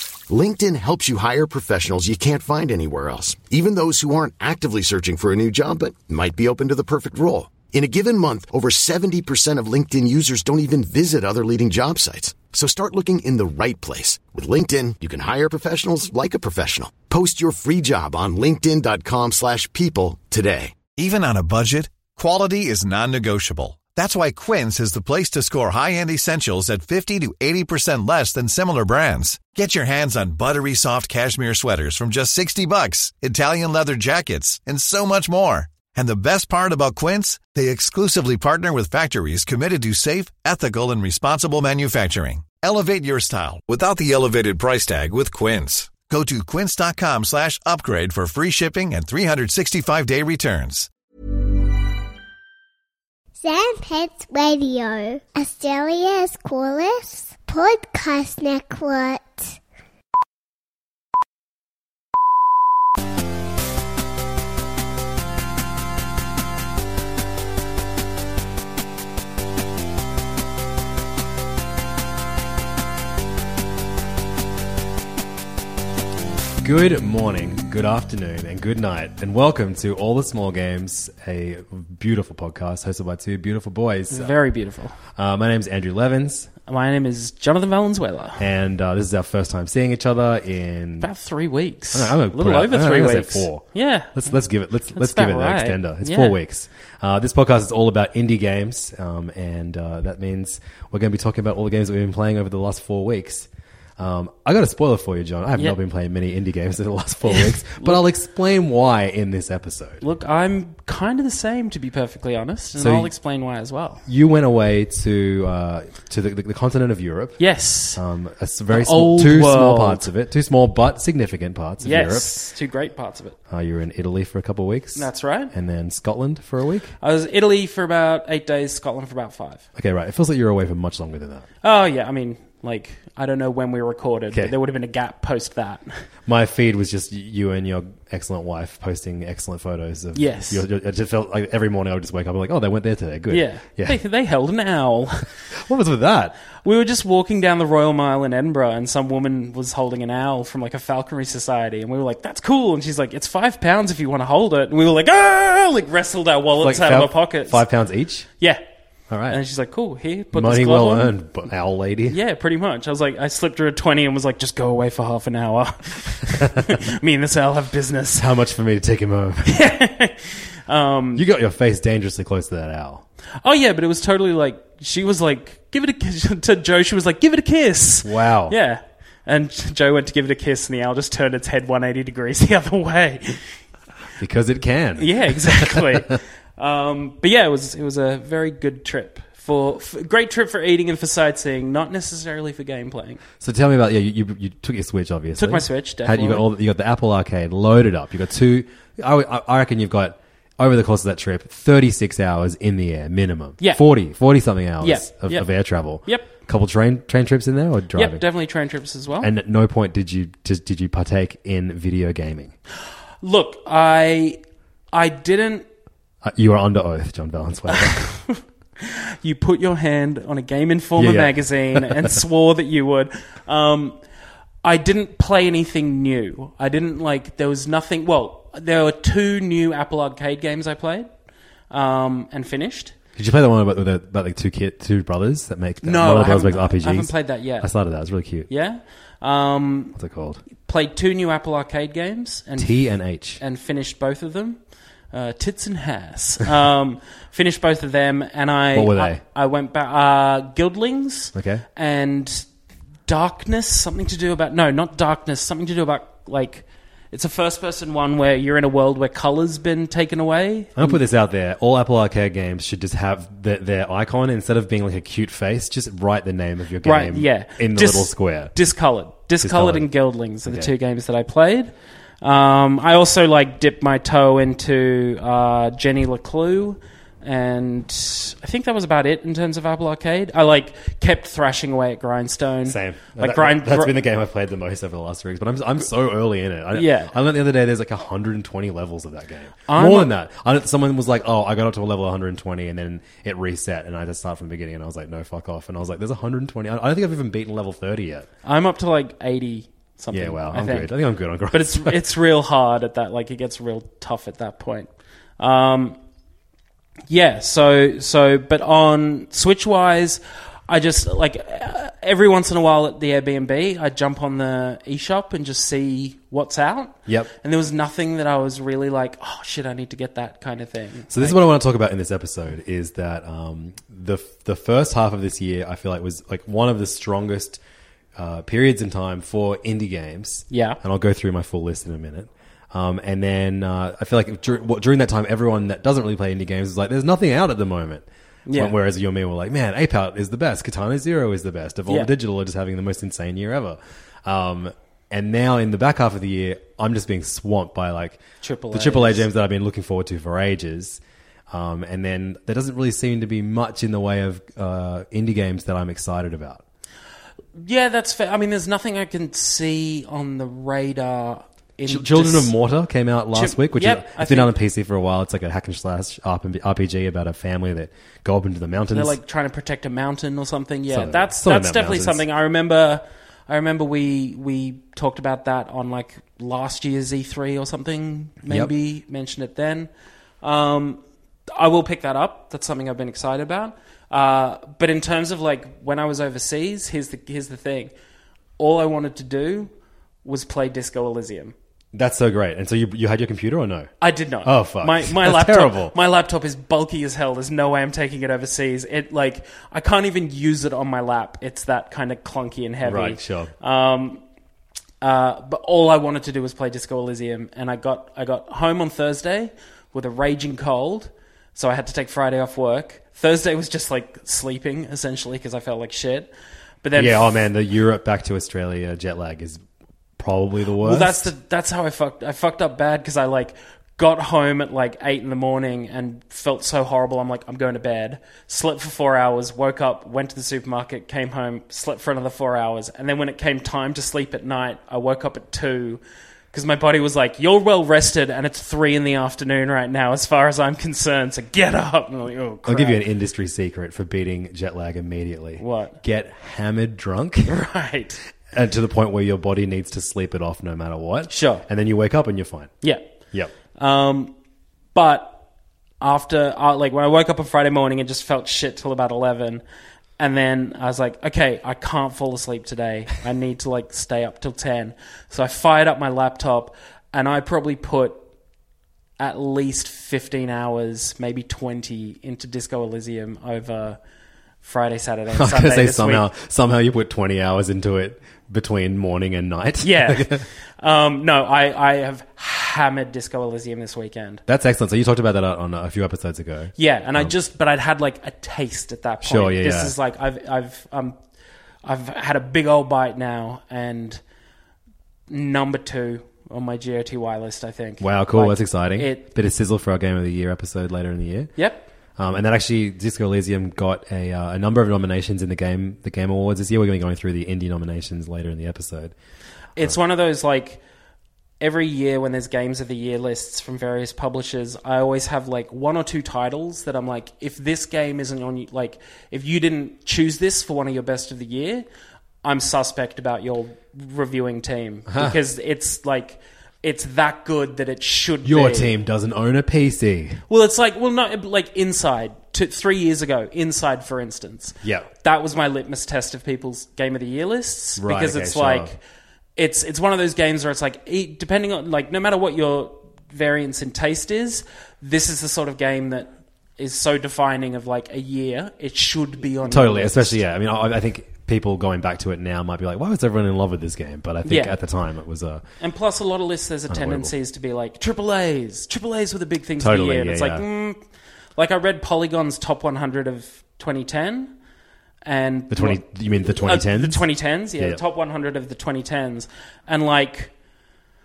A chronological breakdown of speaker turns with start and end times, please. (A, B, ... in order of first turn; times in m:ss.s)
0:00.3-0:20.7 A
0:21.0-0:50.9 B
0:53.4-0:59.6 C
1:16.6-1:24.3 D
1:24.1-1:25.0 E
1:25.1-1:26.5 D
1:26.7-1:28.4 E
1:28.4-1:31.1 D
1:31.0-1:34.3 E
1:31.9-1:50.0 D
1:34.9-1:36.4 E
1:47.3-1:48.0 E
1:50.0-1:54.0 E
1:52.8-1:53.1 D
1:54.1-1:57.4 D
1:57.4-1:58.0 E
1:57.9-2:02.3 D
1:58.7-2:00.1 E
2:01.8-2:03.4 E
2:03.5-2:06.9 D
2:04.9-2:05.5 E
2:07.0-2:09.6 E
2:09.8-2:11.5 D
2:11.6-2:16.0 E
2:16.2-2:24.0 D
2:20.2-2:20.6 E
2:23.3-2:25.2 E
2:25.5-2:26.4 D
2:26.6-2:37.6 E
2:36.6-2:38.3 D
2:39.1-2:39.4 D
2:39.3-2:41.2 E
2:40.3-2:42.2 D
2:42.1-2:48.2 E
2:48.2-2:49.6 D
2:49.5-2:51.2 E
2:51.2-2:53.0 D
2:53.4-3:03.5 E
2:58.0-2:58.6 D
3:04.2-3:06.1 D
3:05.0-3:13.2 E
3:13.4-3:28.2 D
3:15.4-3:16.5 E
3:24.8-3:26.3 E
3:27.9-3:29.3 E
3:29.2-3:32.5 D
3:33.2-3:34.4 E
3:34.9-3:35.6 E
3:36.2-3:38.0 D
3:37.7-3:44.0 E
3:41.0-3:42.2 D
3:44.6-3:51.1 E
3:51.7-3:52.9 E
3:53.2-3:58.5 D
3:55.8-3:57.7 E
3:58.5-3:59.9 E
4:00.0-4:00.4 D
4:00.6-4:02.7 E
4:02.6-4:03.4 D
4:03.4-4:04.6 E
4:05.1-4:12.5 E
4:08.7-4:09.2 D
4:11.3-4:11.6 D
4:13.1-4:21.0 E
4:20.8-4:28.6 D
4:26.8-4:44.0 E
4:29.4-4:29.9 D
4:30.4-4:30.7 D
4:42.7-4:58.3 D
4:46.7-4:47.1 E
4:49.7-4:50.1 E
4:58.4-5:00.9 E
5:00.1-5:02.0 D
5:01.5-5:06.0 E
5:07.1-5:21.4 E
5:17.1-5:17.3 D
5:21.1-5:27.6 D
5:28.2-5:56.6 D
5:30.5-5:30.8 E
5:38.4-5:38.7 E
5:48.4-5:49.2 E
5:57.6-6:02.5 E
6:01.9-6:09.2 D
6:03.3-6:04.5 E
6:08.9-6:19.9 E
6:10.9-6:12.2 D
6:20.4-6:21.0 E
6:21.5-6:27.9 E
6:28.6-6:29.7 E
6:30.2-6:31.6 E
6:31.9-6:33.9 D
6:34.0-6:44.2 E
6:34.4-6:35.9 D
6:42.8-6:43.5 D
6:45.0-6:56.3 E
6:56.8-6:57.4 E
6:56.9-6:59.6 D
7:00.2-7:01.3 D
7:00.8-7:16.0 E
7:16.5-7:23.0 E
7:22.6-7:27.5 D
7:25.6-7:26.0 E
7:27.5-7:28.2 E
7:28.5-7:32.7 D
7:31.3-7:31.6 E
7:33.8-7:34.3 E
7:34.9-7:35.4 E
7:36.0-7:39.6 E
7:40.2-7:48.2 E
7:49.2-7:54.0 E
7:54.6-7:56.3 E
7:55.4-8:00.4 D
7:59.8-8:04.4 E
8:04.5-8:07.3 D
8:06.8-8:11.2 E
8:09.2-8:09.9 D
8:11.8-8:14.2 E
8:15.3-8:19.3 E
8:18.0-8:21.5 D
8:21.6-8:21.9 E
8:22.2-8:29.1 D
8:29.8-8:30.8 E
8:31.6-8:41.8 E
8:42.4-8:48.9 E
8:45.1-8:45.4 D
8:48.4-8:50.4 D
8:50.5-8:59.0 E
8:54.8-8:55.1 D
8:58.0-8:58.9 D
8:59.6-9:10.4 E
9:09.6-9:15.6 D
9:14.4-9:14.8 E
9:15.8-9:21.0 E
9:16.9-9:17.3 D
9:19.8-9:20.6 D
9:21.6-9:24.5 E
9:25.2-9:30.5 E
9:25.7-9:27.2 D